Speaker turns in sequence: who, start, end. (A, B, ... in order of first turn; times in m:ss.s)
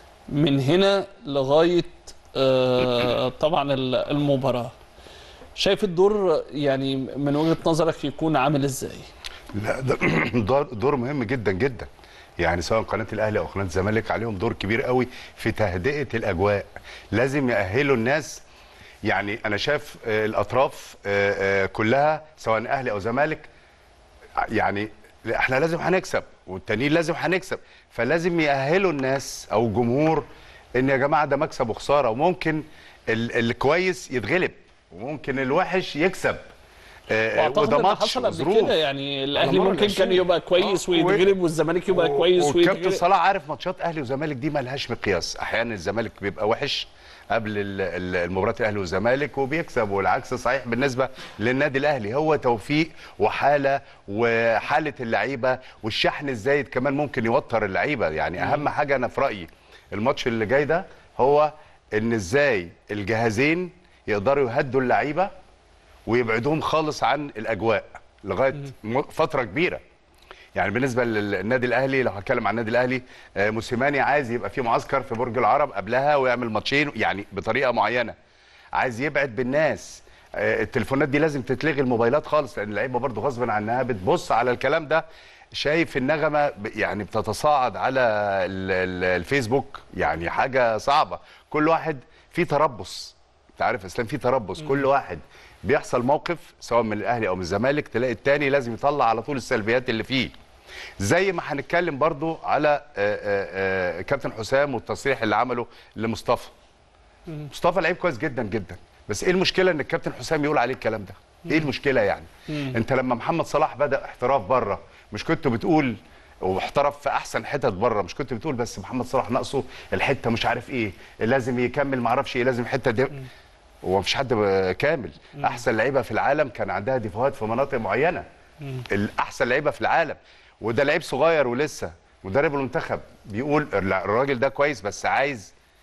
0:00.3-0:04.7 A
0:05.6-0:09.0 A
0:09.5-0:18.4 B
0:19.0-0:23.5 B
0:24.4-0:30.2 B
0:30.8-0:36.4 B
0:37.1-0:38.8 B
0:37.3-0:43.0 A
0:39.4-0:41.3 B
0:41.9-1:05.3 B
0:58.4-0:58.6 A
1:06.1-1:09.8 B
1:10.6-1:18.1 B
1:18.8-1:25.0 B
1:25.6-1:40.3 B
1:41.0-1:46.5 B
1:47.4-2:03.3 B
2:03.8-2:08.2 B
2:08.9-2:15.5 B